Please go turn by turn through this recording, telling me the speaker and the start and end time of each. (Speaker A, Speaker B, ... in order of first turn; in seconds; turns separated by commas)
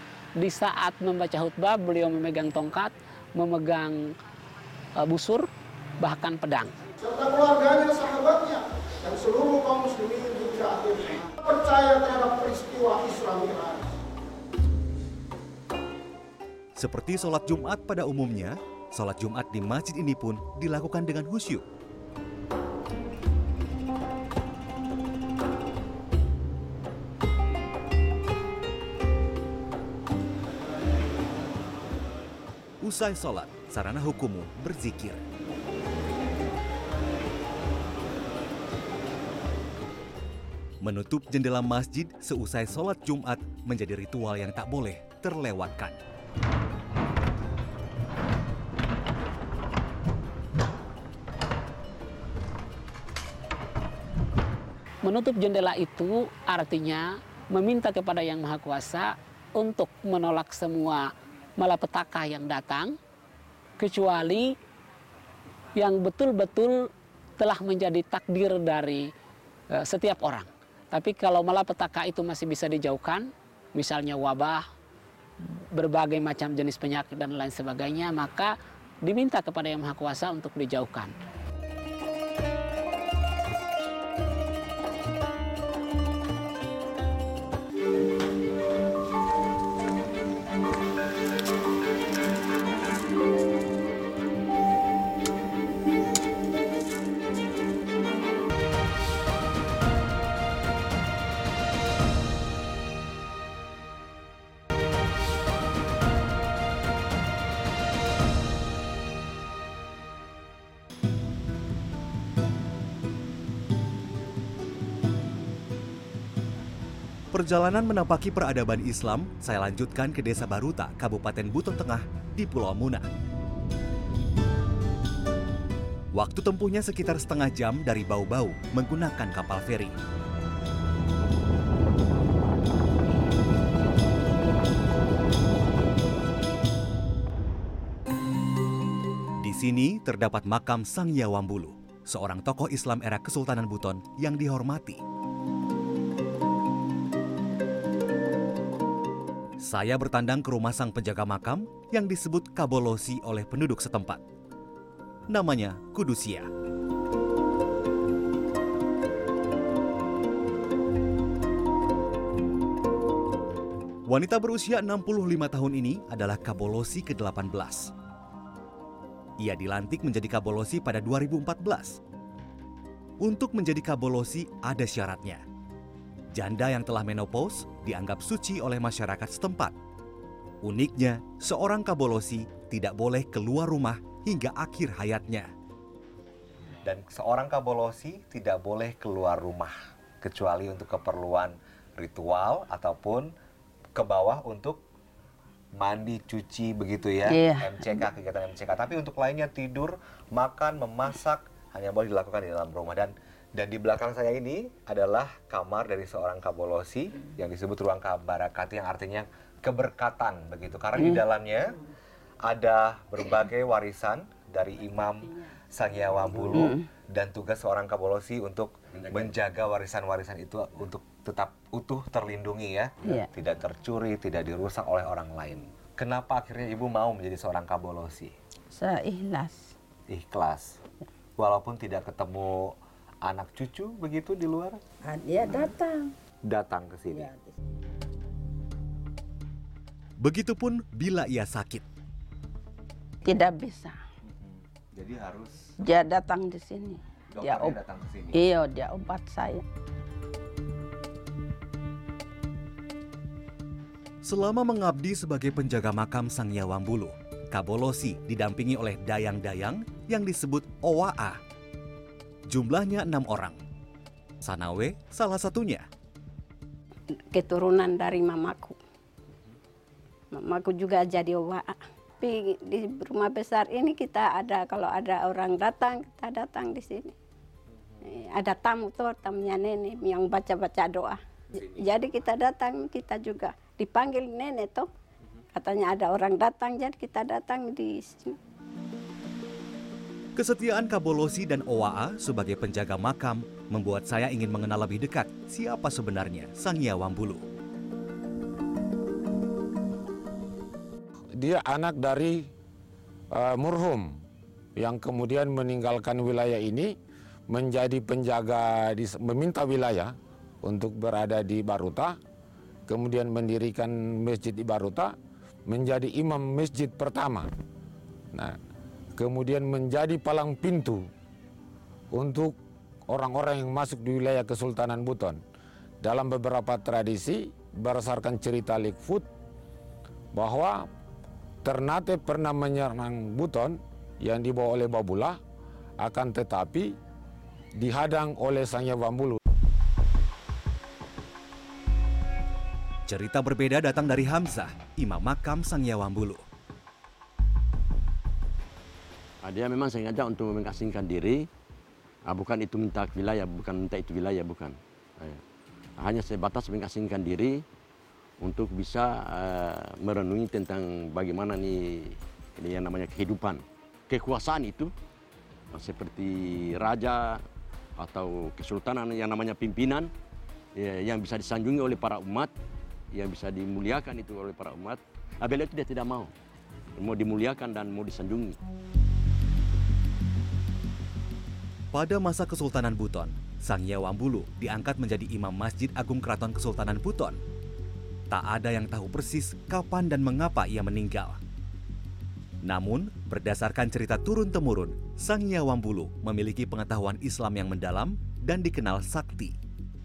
Speaker A: 0.4-4.1, Speaker A: 5.0-5.5, Speaker A: 6.0-6.7, Speaker B: 7.0-13.9, Speaker C: 16.8-21.6, Speaker C: 32.8-35.2, Speaker C: 40.8-46.0, Speaker A: 55.0-63.0, Speaker A: 63.8-64.5, Speaker A: 65.7-66.9, Speaker A: 67.4-69.1, Speaker A: 69.7-74.7, Speaker A: 75.7-81.1, Speaker C: 117.3-123.1, Speaker C: 126.1-129.9, Speaker C: 139.4-145.0, Speaker C: 149.6-154.2, Speaker C: 155.3-156.5, Speaker C: 164.1-167.9, Speaker C: 169.4-172.0, Speaker C: 173.2-175.4, Speaker C: 176.3-179.7, Speaker C: 180.6-185.5, Speaker D: 186.8-193.3, Speaker D: 193.9-194.8, Speaker D: 195.8-211.7, Speaker E: 197.2-198.0, Speaker D: 212.4-228.3, Speaker E: 216.5-216.8, Speaker E: 228.7-229.7, Speaker D: 230.1-230.8, Speaker D: 231.4-234.8, Speaker E: 235.1-236.1, Speaker D: 236.4-237.3, Speaker C: 240.2-241.8, Speaker E: 243.2-243.9, Speaker D: 244.3-245.5, Speaker E: 245.8-247.8, Speaker D: 247.3-248.4, Speaker E: 248.3-249.6, Speaker C: 254.2-261.4, Speaker C: 262.5-263.6, Speaker C: 264.4-265.8, Speaker E: 267.3-268.8, Speaker E: 270.3-277.1, Speaker E: 278.1-281.2, Speaker E: 281.7-284.9, Speaker E: 285.6-288.3, Speaker C: 290.4-297.4, Speaker F: 301.4-302.5, Speaker F: 303.3-304.2, Speaker F: 304.8-306.9, Speaker F: 307.5-312.2, Speaker F: 312.9-315.1, Speaker F: 315.7-317.5, Speaker F: 319.2-321.1, Speaker F: 322.1-322.6, Speaker F: 323.1-325.4, Speaker F: 326.0-329.2, Speaker F: 330.3-330.9, Speaker F: 331.6-335.4, Speaker F: 336.0-336.9, Speaker F: 337.8-339.4, Speaker C: 343.1-346.4, Speaker G: 349.4-351.4, Speaker G: 352.3-355.4, Speaker G: 356.0-357.6, Speaker G: 358.4-364.9, Speaker G: 365.7-367.4, Speaker G: 368.0-370.1, Speaker G: 370.8-372.5, Speaker G: 373.1-376.3, Speaker G: 377.0-378.6, Speaker C: 381.9-387.4, Speaker C: 388.3-391.4, Speaker C: 392.6-399.5